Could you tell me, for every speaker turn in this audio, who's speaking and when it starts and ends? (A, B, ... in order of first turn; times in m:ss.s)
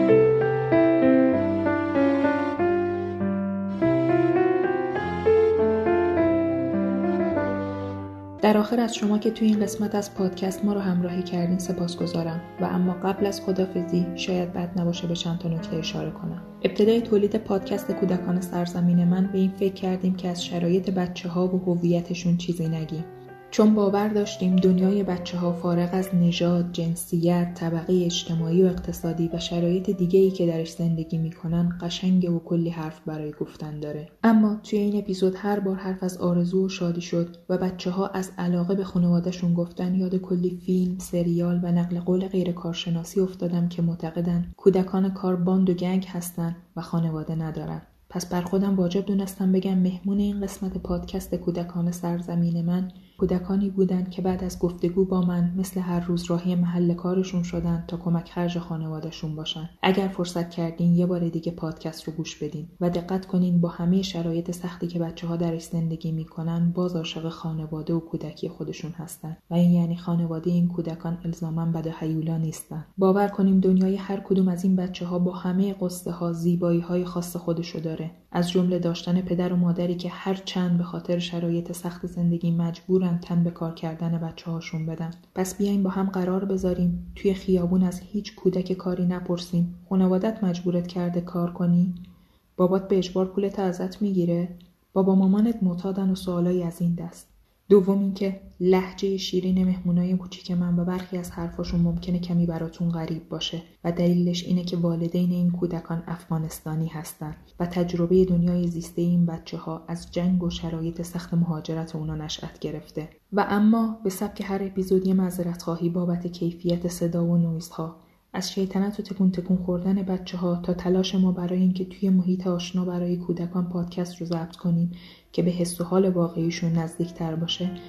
0:08.4-1:32.0 A
1:32.6-2:07.7 A